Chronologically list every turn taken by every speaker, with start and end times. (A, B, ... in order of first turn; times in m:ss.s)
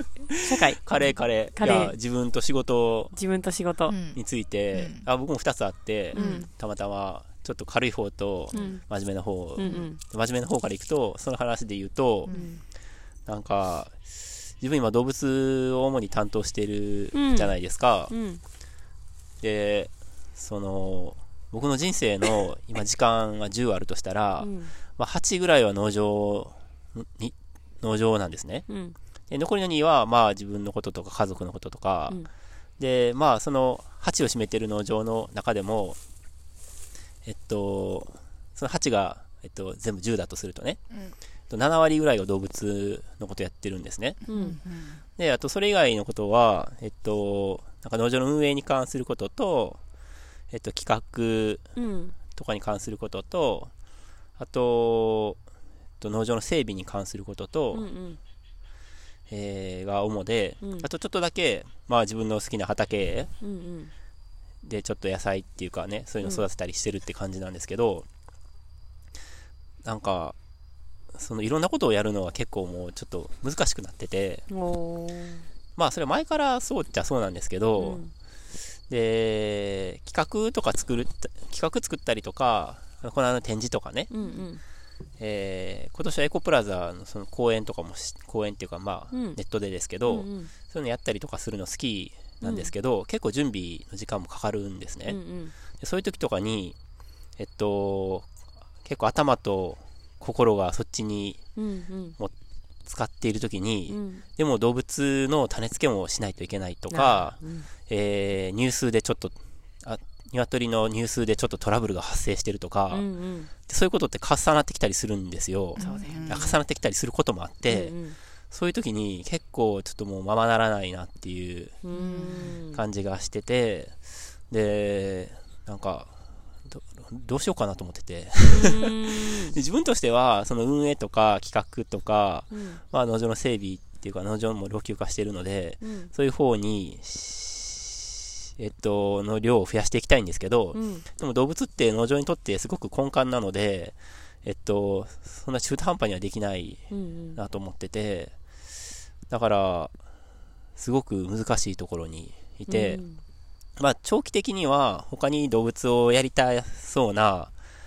0:00.4-0:00.8 A
0:00.4-0:03.1 B
0:01.5-0:01.9 A
0:03.1-0:03.9 A
0:03.9-0:04.2 C
0:04.1-0:12.3 B
0:04.7-0:05.0 C
0:06.1-0:06.5 A
0:06.1-0:06.4 C
0:08.5-0:08.8 A
0:09.6-0:10.0 A
0:12.3-0:12.6 C
0:12.3-0:12.6 A
0:13.3-0:18.1 B
0:17.1-0:18.4 A
0:19.4-0:28.6 B
0:24.4-0:24.7 A
0:28.7-0:29.0 A
0:29.3-0:32.2 B
0:32.8-0:36.0 B
0:37.2-0:40.8 B
0:41.5-0:44.2 B
0:44.3-0:44.6 A
0:44.3-0:45.0 C
0:45.2-0:49.8 B
0:50.5-0:51.7 B
0:51.8-0:52.2 A
0:52.3-0:53.7 B
0:54.4-0:55.4 B
0:56.0-0:57.9 B
0:57.7-0:58.2 A
0:59.3-1:03.3 B
1:00.6-1:00.9 A
1:03.4-1:03.9 A
1:04.6-1:08.0 B
1:09.8-1:10.4 B
1:11.1-1:14.4 B
1:14.5-1:15.4 A
1:15.8-1:18.0 B
1:17.8-1:18.1 A
1:18.9-1:24.1 B
1:24.1-1:24.6 A
1:25.2-1:35.2 B
1:29.1-1:29.4 A
1:30.0-1:30.5 A
1:32.4-1:32.7 A
1:35.1-1:35.5 A
1:35.8-1:36.8 B
1:37.4-1:38.3 B
1:38.8-1:41.4 B
1:41.6-1:42.2 A
1:42.8-1:53.0 B
1:43.9-1:44.2 A
1:46.9-1:47.7 A
1:52.9-1:53.5 A
1:53.7-1:57.9 B
1:55.8-1:56.5 A
1:55.8-1:56.6 C
1:57.6-1:58.2 A
1:58.5-2:01.8 B
2:01.8-2:02.8 A
2:01.9-2:02.6 C
2:02.7-2:03.9 B
2:04.5-2:06.1 B
2:06.6-2:26.8 B
2:08.4-2:09.6 A
2:12.5-2:12.8 A
2:15.8-2:16.1 A
2:20.7-2:21.1 A
2:26.9-2:27.4 A
2:27.4-2:28.3 B
2:29.3-2:29.9 B
2:30.8-2:33.0 B
2:32.7-2:33.2 A
2:33.8-2:37.5 B